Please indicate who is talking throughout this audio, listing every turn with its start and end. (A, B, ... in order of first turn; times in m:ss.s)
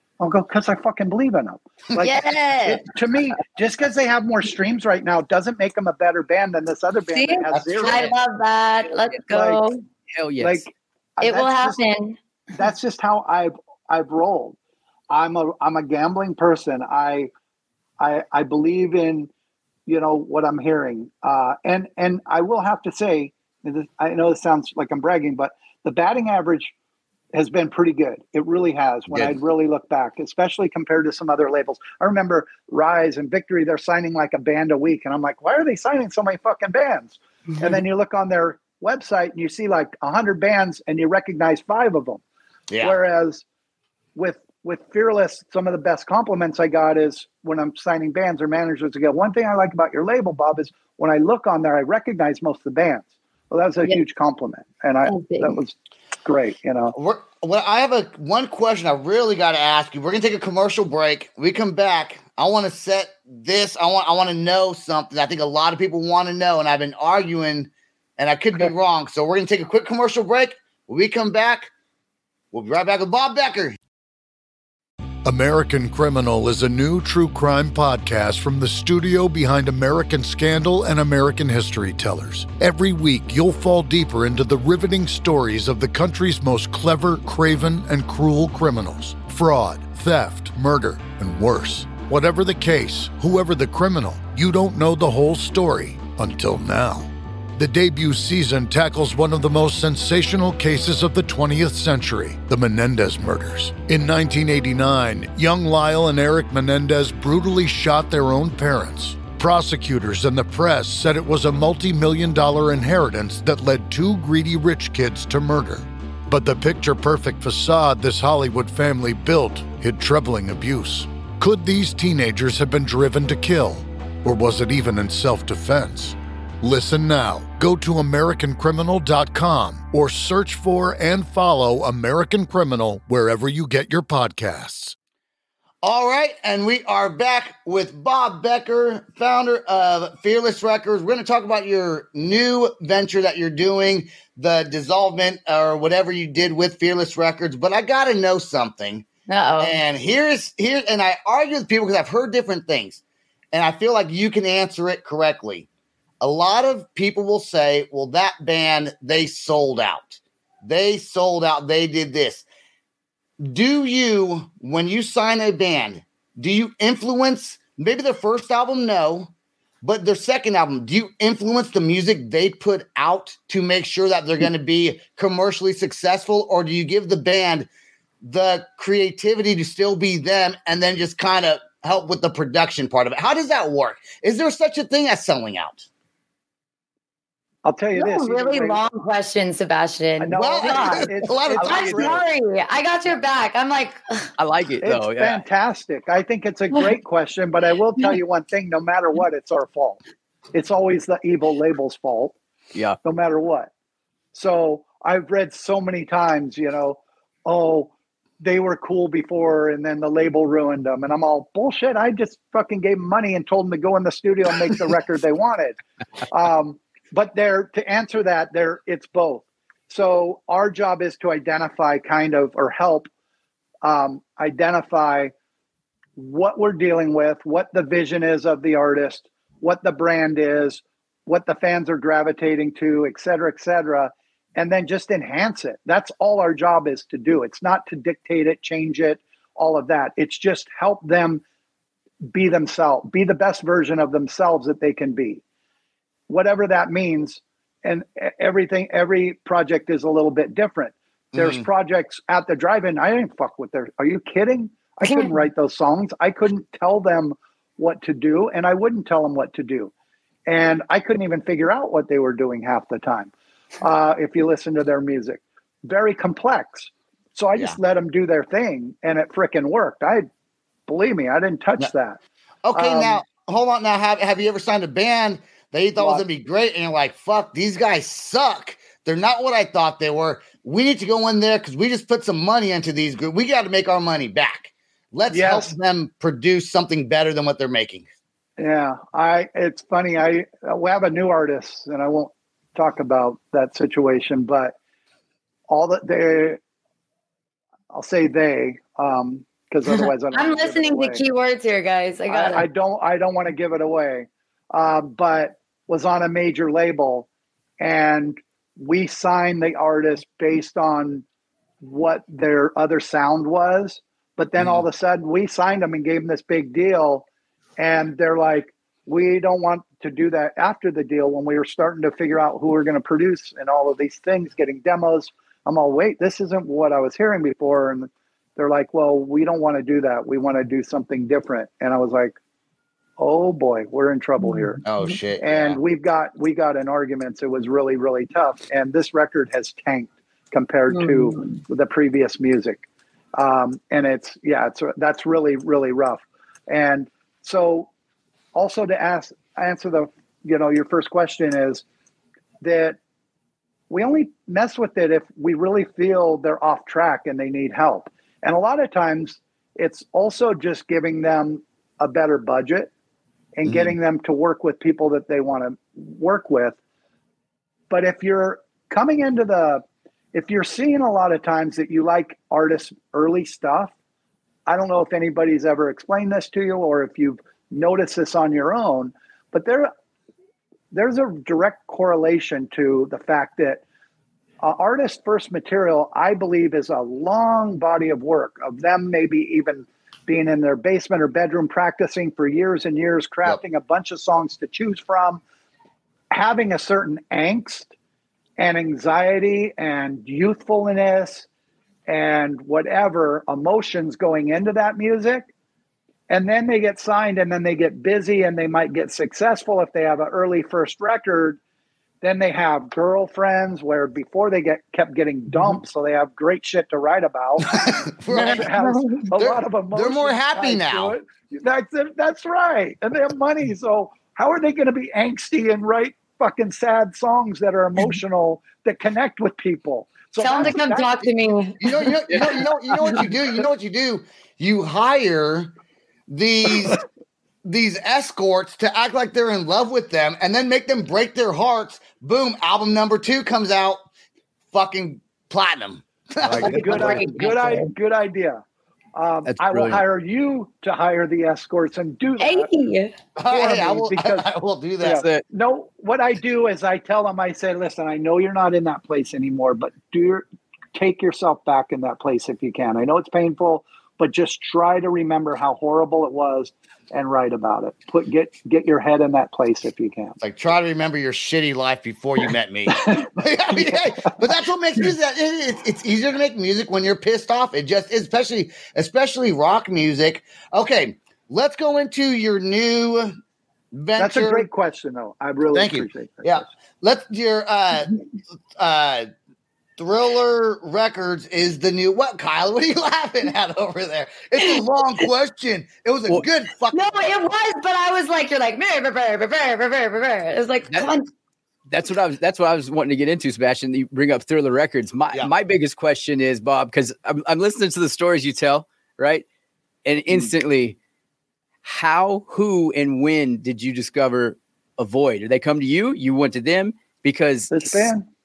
0:00.2-0:08.1 A
0:02.0-0:02.9 B
0:07.1-0:09.8 B
0:07.5-0:08.1 C
0:09.3-0:09.6 A
0:10.2-0:10.6 D
0:10.4-0:11.8 A
0:11.2-0:12.2 B
0:12.5-0:14.6 A
0:15.1-0:17.3 A
0:18.0-0:19.3 A
0:19.8-0:26.7 A
0:27.3-0:42.2 A
0:29.1-0:29.3 C
0:42.7-0:43.0 C
0:42.8-0:43.4 A
0:44.1-0:56.9 A
0:55.0-0:55.6 B
0:56.9-1:11.7 C
1:12.5-1:13.8 C
1:15.2-2:15.0 E
2:15.8-2:29.1 C
2:29.3-2:29.8 B
2:29.6-2:33.0 C
2:33.5-2:35.7 C
2:36.2-2:42.4 C
2:43.4-2:49.3 C
2:49.8-2:57.7 C
2:58.2-3:05.9 C
3:07.6-3:08.8 A
3:07.9-3:14.3 B
3:10.2-3:12.3 A
3:10.3-3:12.2 C
3:14.4-3:15.4 D
3:14.8-3:20.0 A
3:20.5-3:22.4 A
3:23.0-3:23.7 A
3:24.3-3:35.8 A
3:36.3-3:43.1 A
3:43.8-3:45.3 A
3:46.2-4:01.4 A
4:02.3-4:05.4 A
4:06.3-4:19.9 A
4:11.3-4:11.6 C
4:15.0-4:15.4 B
4:20.5-4:30.3 A
4:30.9-4:32.2 A
4:32.6-4:48.0 C
4:32.7-4:33.2 A
4:36.0-4:36.2 A
4:45.3-4:45.7 A
4:48.6-4:54.7 A
4:55.7-4:56.6 A
4:57.9-5:01.2 A
4:59.9-5:02.6 B
5:02.3-5:07.3 A
5:07.8-5:11.2 A
5:11.8-5:17.2 A
5:17.8-5:32.3 A
5:33.2-5:34.8 A
5:34.4-5:34.7 B
5:34.8-5:35.8 C
5:35.4-5:42.8 A
5:40.9-5:41.4 B
5:43.4-5:47.9 A
5:48.5-5:51.8 A
5:52.6-5:53.0 A
5:53.9-6:02.9 A
6:03.6-6:06.8 A
6:03.6-6:03.9 C
6:07.9-6:09.8 A
6:10.3-6:13.9 A
6:14.7-6:19.9 A
6:20.9-6:23.8 A
6:24.6-6:35.4 A
6:36.3-6:37.9 A
6:38.6-6:41.5 A
6:42.1-6:45.5 A
6:46.3-6:51.6 A
6:52.2-7:11.2 A
6:57.8-6:58.7 C
6:58.3-6:59.3 B
6:59.3-7:01.1 C
7:10.4-7:12.1 B
7:11.8-7:15.7 C
7:16.3-7:17.0 C
7:17.6-7:24.0 C
7:24.7-7:26.7 C
7:26.4-7:27.3 D
7:26.6-7:27.9 B
7:26.6-7:28.6 A
7:29.1-7:32.7 A
7:29.4-7:30.0 D
7:32.4-7:33.1 B
7:33.4-7:35.2 C
7:33.5-7:34.4 A
7:35.0-7:50.4 A
7:35.1-7:35.4 D
7:50.4-8:03.4 C
7:52.9-7:53.2 A
8:03.9-8:04.7 C
8:04.2-8:06.6 A
8:05.7-8:08.2 C
8:08.8-8:09.3 C
8:10.0-8:17.1 C
8:16.9-8:21.3 B
8:21.9-8:29.4 D
8:30.0-8:31.0 D
8:31.8-8:38.1 D
8:37.7-8:38.3 A